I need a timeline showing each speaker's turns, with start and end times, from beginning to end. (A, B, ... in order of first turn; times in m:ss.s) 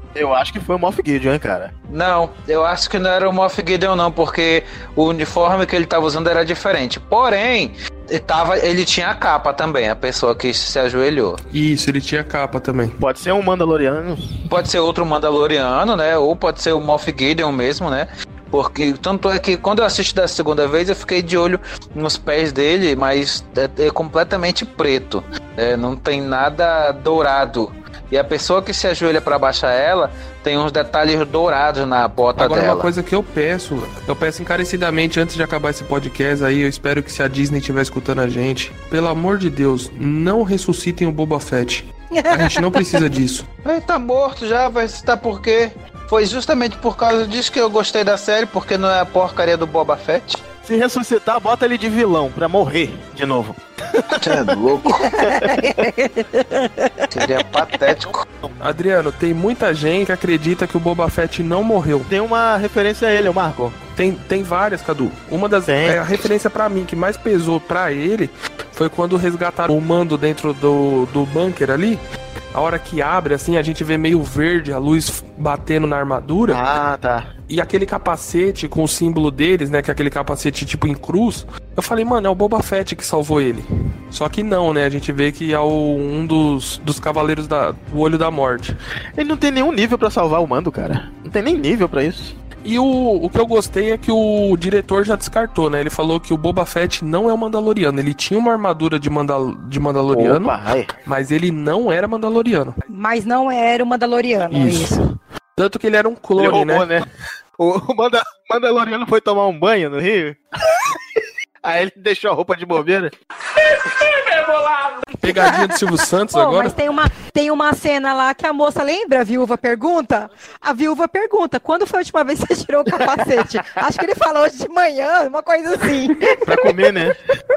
0:00.1-0:01.7 A
0:01.9-0:11.4 B
0:11.5-0:13.0 C
0:13.0-0:14.3 A
0:14.5-0:32.9 B
0:32.4-0:43.5 C
0:42.1-0:43.0 D
0:43.6-0:50.4 B
0:50.6-0:54.3 A
0:54.1-0:55.2 B
0:55.0-0:57.1 D
0:55.2-0:55.7 A
0:57.1-0:58.2 B
0:58.6-1:02.1 C
1:02.1-1:03.8 A
1:04.0-1:12.0 C
1:05.6-1:06.0 A
1:12.5-1:16.6 C
1:16.5-1:17.3 A
1:17.5-1:28.7 C
1:29.2-1:32.3 A
1:32.6-1:42.8 C
1:40.1-1:40.9 A
1:42.9-1:45.0 D
1:44.5-1:45.0 C
1:45.6-1:46.9 C
1:46.4-1:47.1 A
1:47.6-1:53.1 A
1:55.2-1:56.7 C
1:55.2-2:06.3 D
2:06.3-2:06.7 C
2:06.4-2:07.2 A